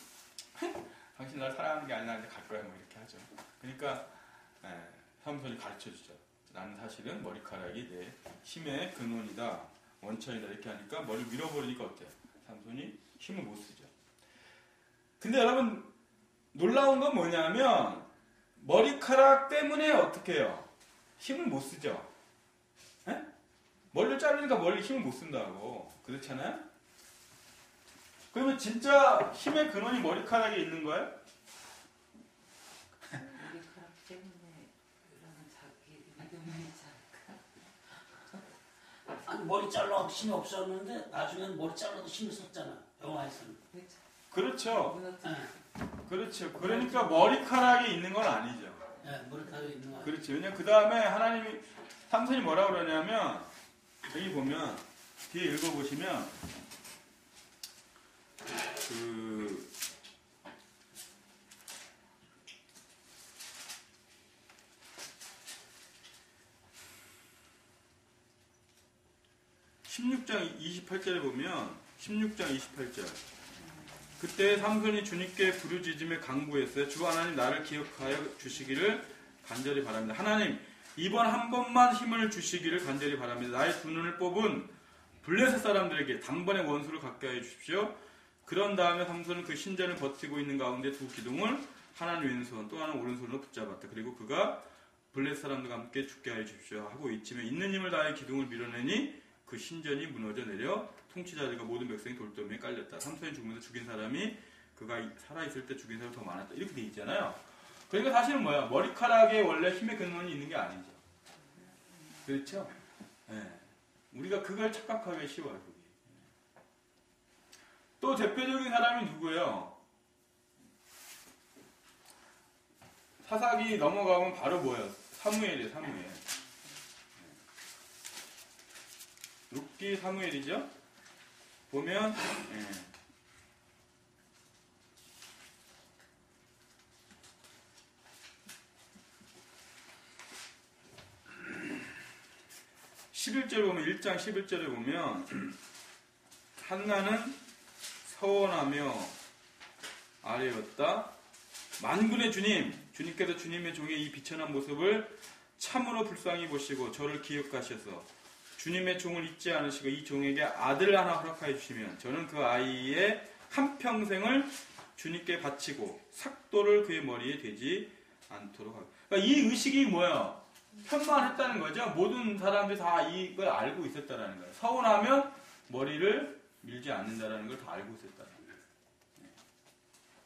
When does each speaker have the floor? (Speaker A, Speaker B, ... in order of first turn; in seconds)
Speaker A: 0.6-13.9, 15.2-15.9, 16.5-20.7, 21.2-22.1, 23.9-26.7, 28.3-31.1, 44.3-45.0, 46.1-48.8, 50.0-53.5, 54.1-56.3, 58.8-59.7, 69.9-73.2, 74.2-111.0, 112.2-112.8, 113.3-116.1, 118.0-119.8, 123.2-126.2, 129.5-130.7, 131.7-132.9, 143.1-145.6, 146.6-147.4, 148.0-149.2, 150.2-151.1, 151.8-178.5
Speaker B: 33.1-38.4, 43.7-44.0, 44.6-45.5, 46.6-47.4, 49.4-49.7
Speaker C: 39.2-43.6, 45.2-45.5, 49.0-50.1